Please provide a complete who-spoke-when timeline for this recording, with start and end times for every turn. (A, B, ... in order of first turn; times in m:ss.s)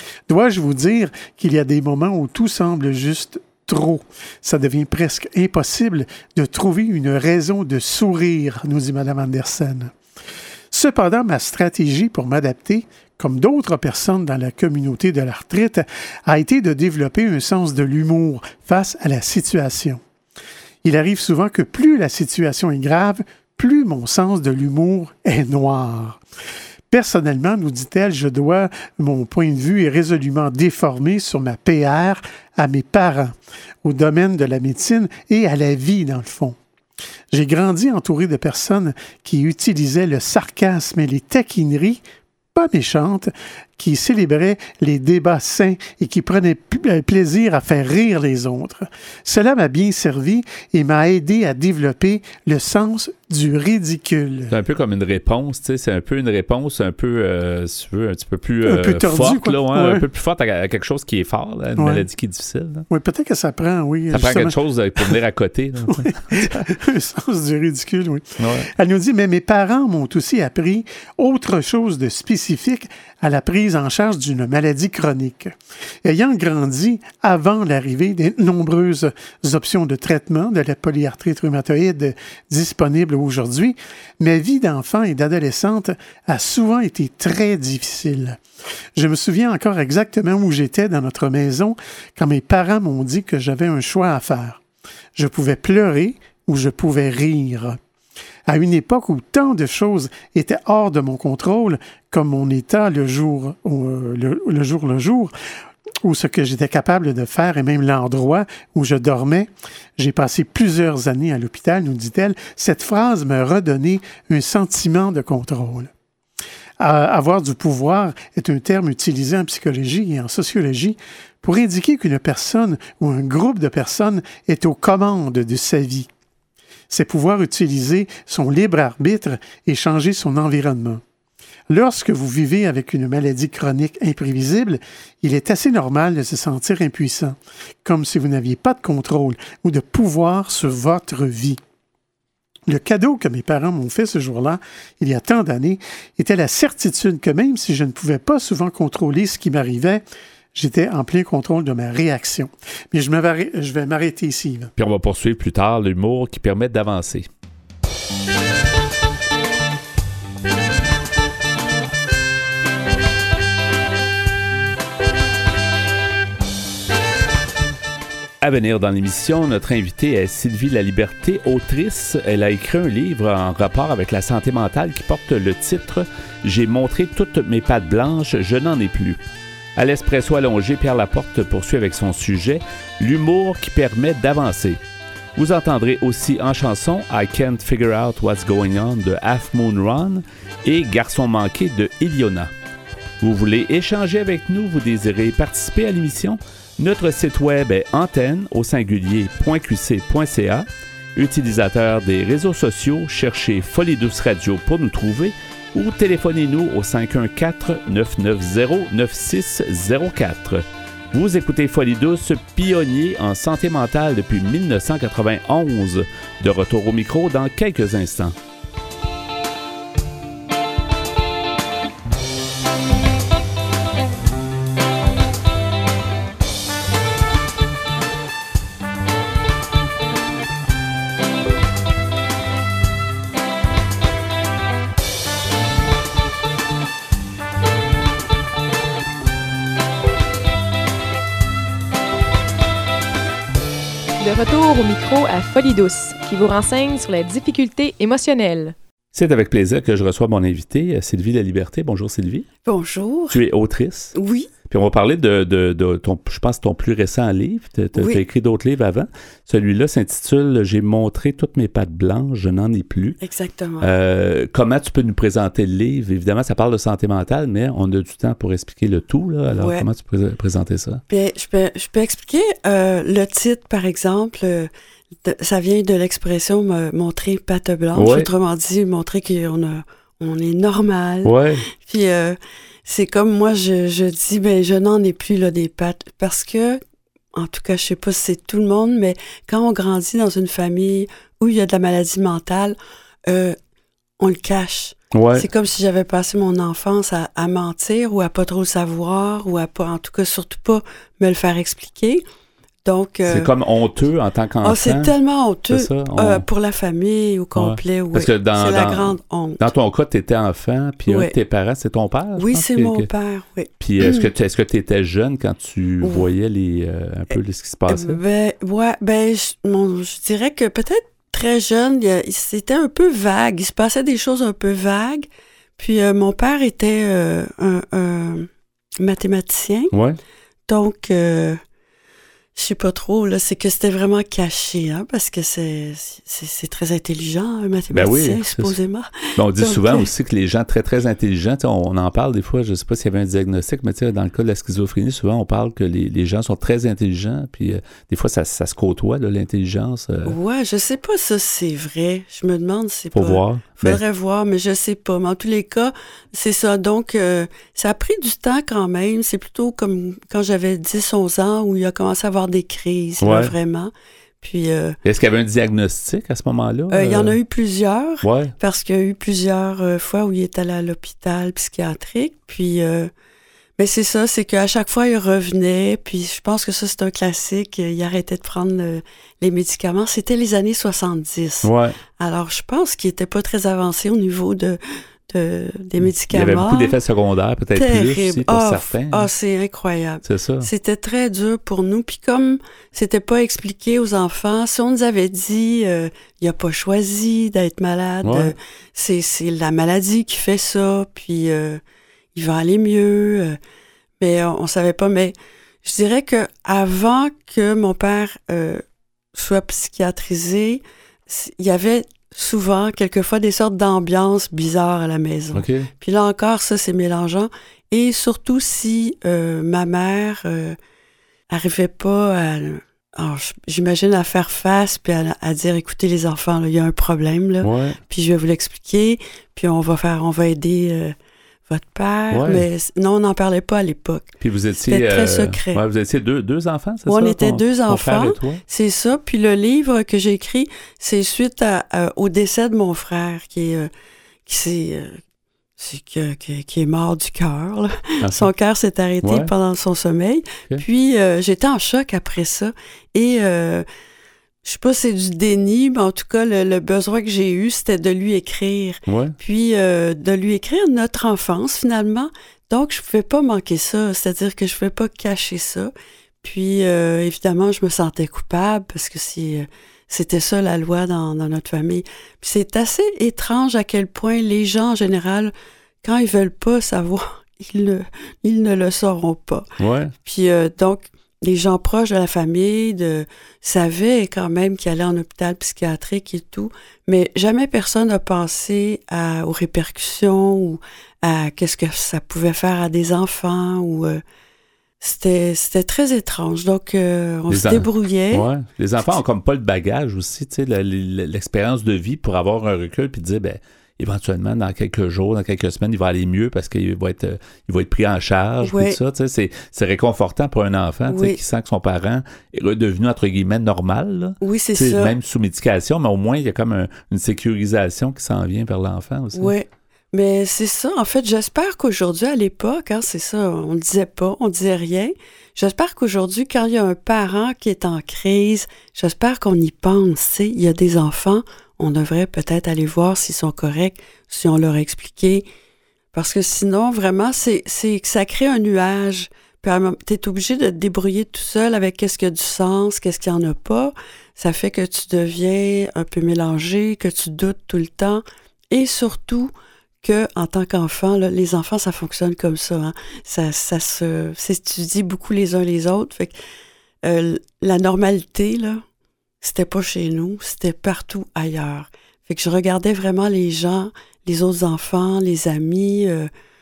0:00.3-0:09.9 A
0:10.7-0:20.0 A
0:20.8-0:26.2 A
0:26.9-0:36.6 A
0:37.3-0:42.0 A
0:42.5-0:54.5 A
0:54.5-1:02.8 B
0:58.6-1:00.0 A
1:01.8-1:02.0 A
1:02.9-1:05.1 A
1:04.1-1:06.7 B
1:05.9-1:28.4 A
1:08.4-1:08.7 B
1:28.9-1:34.6 A
1:35.1-1:37.8 A
1:38.5-1:45.3 A
1:46.0-1:55.9 A
1:56.8-2:06.1 A
2:06.9-2:11.0 A
2:11.7-2:21.6 A
2:22.7-2:34.7 A
2:34.8-2:37.3 B
2:48.4-2:59.2 B
2:59.8-3:04.8 B
3:05.4-3:12.5 B
3:13.2-3:38.3 B
4:04.2-4:08.7 C
4:09.1-4:12.4 B
4:12.6-4:13.4 D
4:13.3-4:14.1 B
4:14.1-4:14.5 D
4:14.7-4:23.2 B
4:18.0-4:18.2 D
4:23.2-4:23.9 D
4:23.8-4:31.0 B
4:29.6-4:29.8 D
4:31.1-4:34.7 D
4:35.2-4:46.8 D
4:37.9-4:38.3 B
4:41.2-4:41.6 B
4:47.3-4:52.8 D
4:53.3-4:53.6 D
4:54.2-5:02.2 D
4:55.1-4:55.5 B
5:02.8-5:03.5 D
5:03.2-5:05.1 B
5:04.6-5:09.7 D
5:05.7-5:06.4 B
5:07.5-5:13.1 B
5:11.1-5:11.3 D
5:12.4-5:14.3 D
5:13.8-5:18.2 B
5:17.9-5:28.5 D
5:29.0-5:29.9 D
5:29.9-5:30.2 B
5:30.7-5:31.6 D
5:32.5-5:40.0 D
5:37.9-5:38.8 B
5:39.4-5:50.4 B
5:50.2-6:05.0 D
5:53.1-5:54.0 B
6:03.2-6:03.5 B
6:05.0-6:07.4 B
6:06.9-6:13.1 D
6:08.2-6:08.5 B
6:13.8-6:27.0 D
6:21.6-6:22.0 B
6:26.0-6:29.3 B
6:27.7-6:41.8 D
6:30.2-6:30.7 B
6:38.2-6:38.5 B
6:42.3-6:43.6 D
6:44.2-6:48.8 D
6:49.3-7:00.8 D
6:55.5-6:55.9 B
7:01.5-7:11.2 D
7:07.6-7:08.0 B
7:11.7-7:14.3 D
7:12.3-7:12.6 B
7:14.4-7:18.6 B
7:14.8-7:15.8 D
7:17.1-7:23.9 D
7:24.4-7:25.2 D
7:25.8-7:33.8 D
7:28.2-7:28.5 B
7:29.2-7:29.5 B
7:34.6-7:45.9 D
7:39.1-7:39.3 B
7:46.4-7:59.7 D
7:59.8-8:00.1 B
8:00.2-8:14.2 D
8:15.0-8:18.5 D
8:17.5-8:39.5 B
8:28.6-8:29.0 D
8:31.1-8:31.4 D
8:34.4-8:35.1 D
8:39.3-8:55.4 D
8:56.1-9:16.4 D
9:17.0-9:18.8 D
9:19.4-9:26.3 D